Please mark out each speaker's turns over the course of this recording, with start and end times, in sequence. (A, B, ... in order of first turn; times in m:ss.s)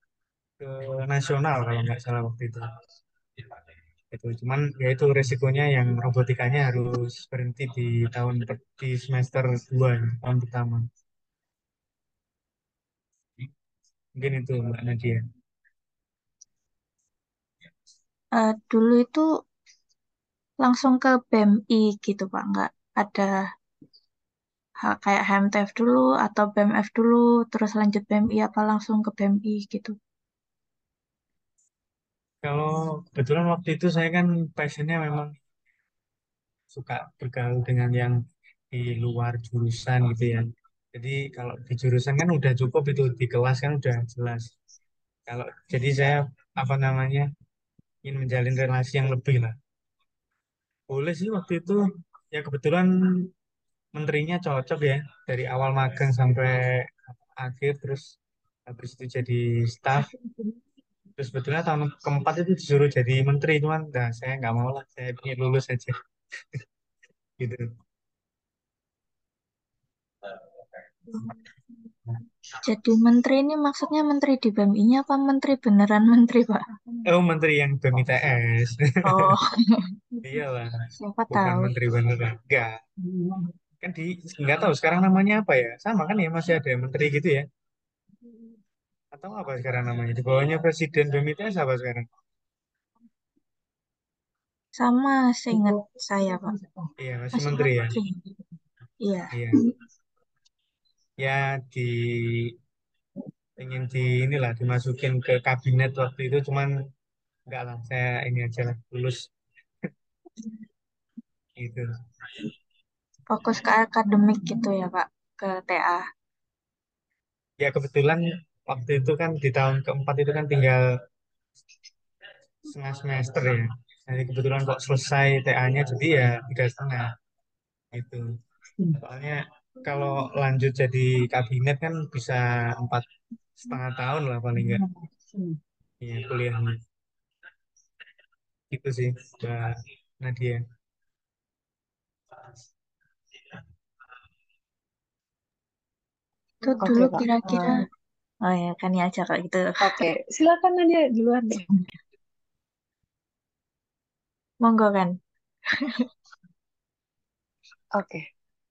0:00.6-0:02.6 A
0:04.1-0:10.9 A
0:14.2-0:15.2 A
0:18.4-0:19.2 B
0:20.6-0:23.3 B
0:24.8-0:30.0 B
0:32.4-0:35.3 A
0:36.7-0:38.2 A
0:38.7-0:44.5 A
0:45.3-0:47.3 A
0:48.0-0:49.6 A
0:50.9-0:51.8 A
0:52.3-0:53.3 A
0:54.0-0:58.2 A
0:58.7-1:00.1 A
1:01.2-1:06.6 A
1:07.4-1:07.7 A
1:12.6-1:16.6 B
1:17.1-1:19.4 A
1:19.1-1:20.0 B
1:20.2-1:20.8 A
1:21.0-1:21.7 B
1:21.3-1:22.7 A
1:23.8-1:27.4 A
1:29.1-1:32.1 A
1:34.8-1:36.5 B
1:37.0-1:38.0 A
1:37.4-1:38.2 B
1:39.0-1:39.3 B
1:39.3-1:39.6 A
1:41.2-1:42.6 A
1:43.6-1:46.7 A
1:47.5-1:49.3 A
1:51.6-1:51.9 A
1:53.3-1:56.0 B
1:57.6-2:00.8 A
2:02.7-2:07.1 A
2:07.9-2:08.2 A
2:08.9-2:13.1 A
2:13.6-2:14.8 A
2:16.0-2:16.8 A
2:18.7-2:20.6 A
2:26.6-2:27.8 B
2:26.8-2:27.9 C
2:28.4-2:29.8 B
2:29.8-2:31.7 C
2:34.6-2:35.2 B
2:35.8-2:36.1 B
2:38.0-2:38.2 C